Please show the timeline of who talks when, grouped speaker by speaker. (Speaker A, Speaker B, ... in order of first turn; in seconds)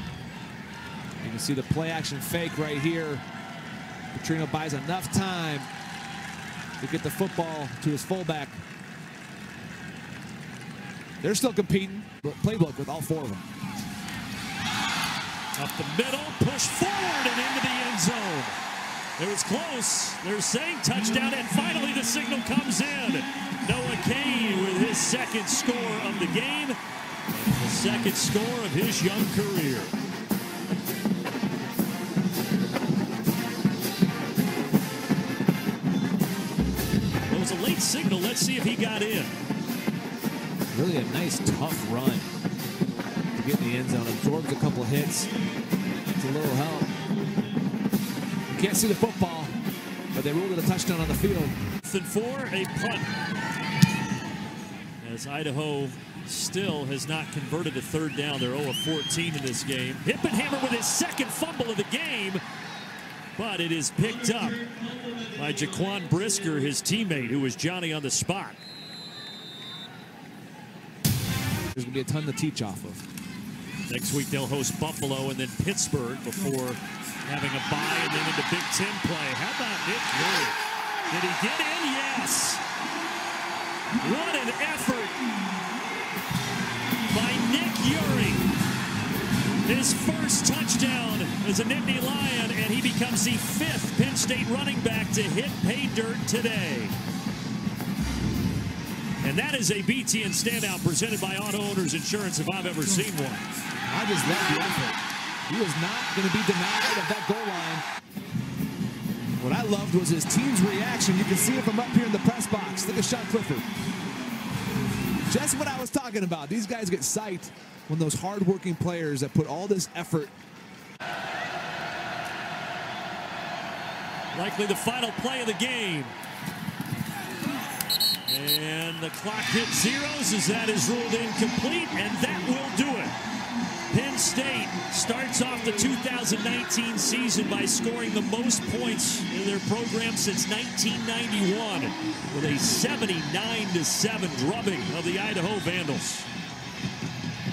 Speaker A: 1.2-3.2, 4.1-5.7, 6.8-8.6, 11.2-13.4, 40.7-42.3, 43.3-45.3, 46.2-46.9, 48.5-49.5, 50.1-51.5, 71.7-73.0, 103.9-107.8, 109.4-113.6, 115.2-120.3
Speaker B: 15.6-18.6, 19.2-26.8, 27.3-29.9, 37.3-39.3, 51.8-53.1, 55.0-62.4, 63.4-64.6, 65.3-68.6, 73.9-82.6, 83.9-85.2, 87.1-88.5, 89.6-97.0, 99.2-103.5, 124.3-126.1, 128.3-133.1, 133.9-146.3